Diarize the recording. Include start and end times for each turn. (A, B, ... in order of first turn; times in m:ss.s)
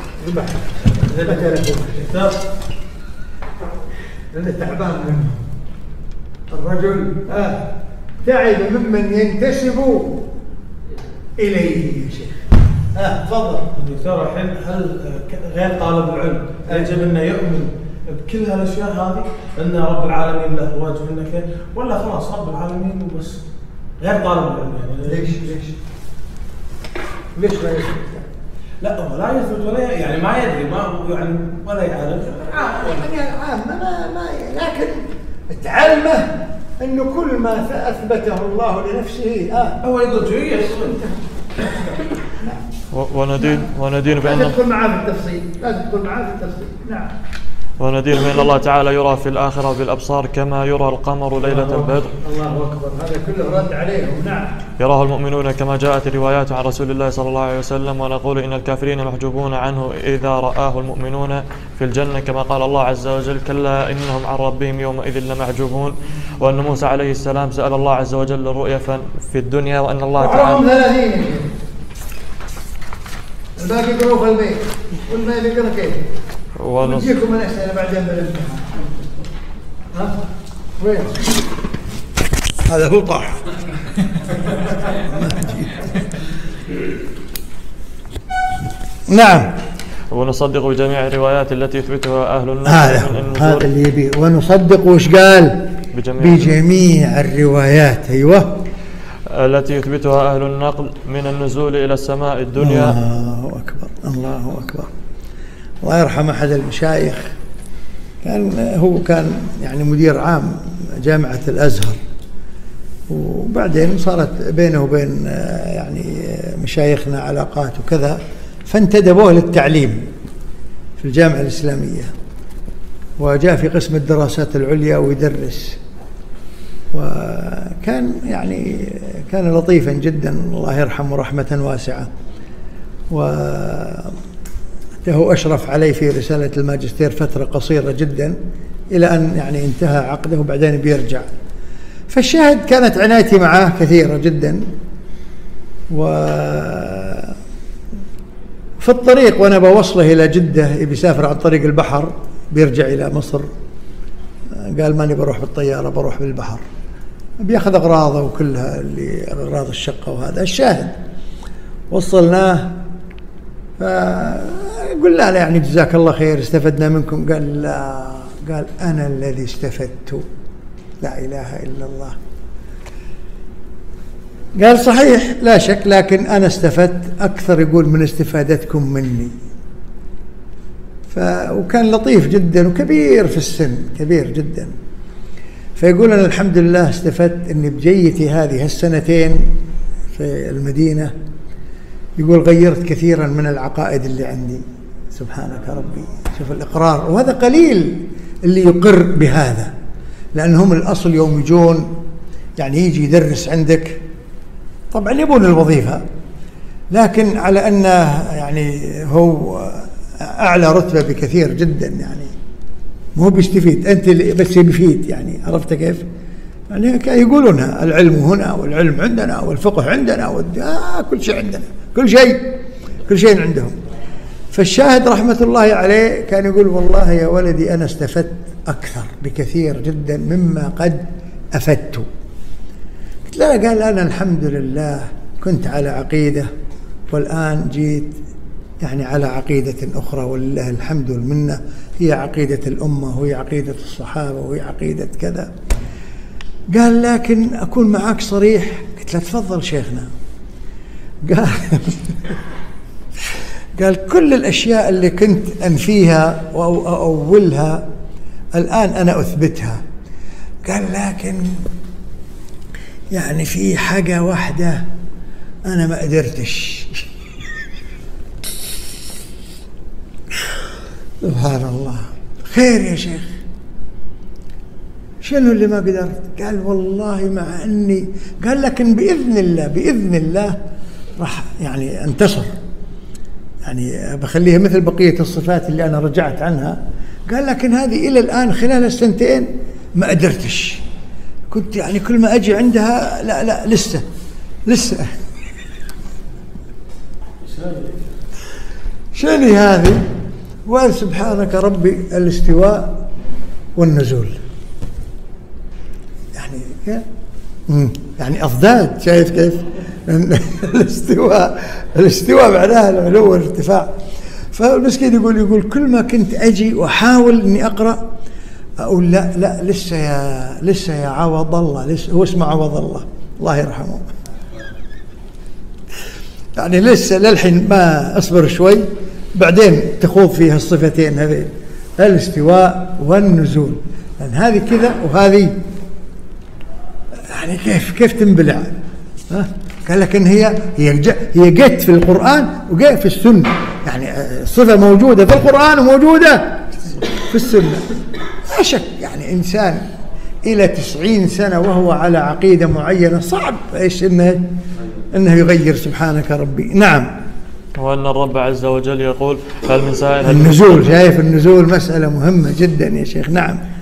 0:00.2-0:02.2 A
0:01.0-0:01.6 B
0:02.1-0:02.4 B
0:04.3-0:05.4 A
0:06.5-0:07.6 A
0:08.2-0:10.2 A
0:11.4-0:12.4 A
0:13.0-0:13.6 A
0:13.8-0:23.4 B
0:24.0-0:25.3 B
0:25.1-0:25.8 A
0:27.4-0:28.3 A
0:28.8-0:33.0 B
0:32.7-0:39.8 A
0:39.8-0:41.1 B
0:42.9-0:44.6 C
0:44.2-0:47.1 A
0:47.8-0:52.1 C
0:51.4-0:54.5 A
0:54.8-1:10.6 C
1:10.2-1:11.5 A
1:13.6-1:16.0 A
1:16.6-1:17.2 C
1:16.8-1:18.7 A
1:20.8-1:21.3 A
1:22.7-1:23.4 A
1:24.9-1:25.8 A
1:29.1-1:29.5 A
1:30.1-1:33.7 C
1:32.7-1:35.6 A
1:35.9-1:36.6 C
1:36.2-1:38.6 A
1:39.3-1:43.0 C
1:42.6-1:44.9 A
1:45.8-1:47.3 A
1:48.2-1:52.0 A
1:53.1-2:00.1 A
2:01.0-2:02.1 A
2:03.2-2:05.8 A
2:06.9-2:12.1 A
2:13.1-2:14.2 A
2:15.0-2:18.4 A
2:18.9-2:21.3 A
2:22.1-2:24.6 A
2:25.9-2:27.3 A
2:28.8-2:33.5 A
2:34.6-2:36.6 A
2:37.4-2:41.0 A
2:41.9-2:42.8 A
2:43.8-2:50.2 A
2:51.0-2:52.2 A
2:54.6-2:59.3 A
3:01.1-3:04.7 A
3:05.8-3:09.5 A
3:10.2-3:11.1 A
3:12.2-3:19.7 A
3:20.4-3:22.0 A
3:22.6-3:24.0 A
3:24.9-3:26.0 A
3:26.9-3:32.3 A
3:33.2-3:36.1 A
3:36.7-3:42.4 A
3:43.1-3:43.8 A
3:44.5-3:52.1 A
3:53.3-3:56.5 A
3:57.1-3:58.2 A
3:58.8-4:05.5 A
4:06.7-4:10.1 A
4:11.2-4:12.4 A
4:13.8-4:17.8 A
4:18.6-4:19.8 A
4:20.6-4:21.6 A
4:23.1-4:24.8 A
4:25.7-4:27.1 A
4:31.2-4:33.3 A
4:35.2-4:40.6 A
4:41.2-4:42.5 A
4:43.6-4:50.8 A
4:51.5-4:54.0 A
4:54.7-4:55.1 A
4:57.4-4:58.1 B
4:59.1-5:00.0 A
5:00.7-5:03.0 A
5:03.8-5:04.4 A
5:06.4-5:07.0 A
5:07.7-5:13.9 A
5:14.5-5:18.0 A
5:18.8-5:24.1 A
5:26.6-5:35.5 A
5:37.3-5:38.8 A
5:39.3-5:47.9 A
5:48.5-5:49.8 A
5:50.4-5:54.4 A
5:55.1-5:57.1 A
5:57.8-6:01.0 C
6:00.2-6:03.6 A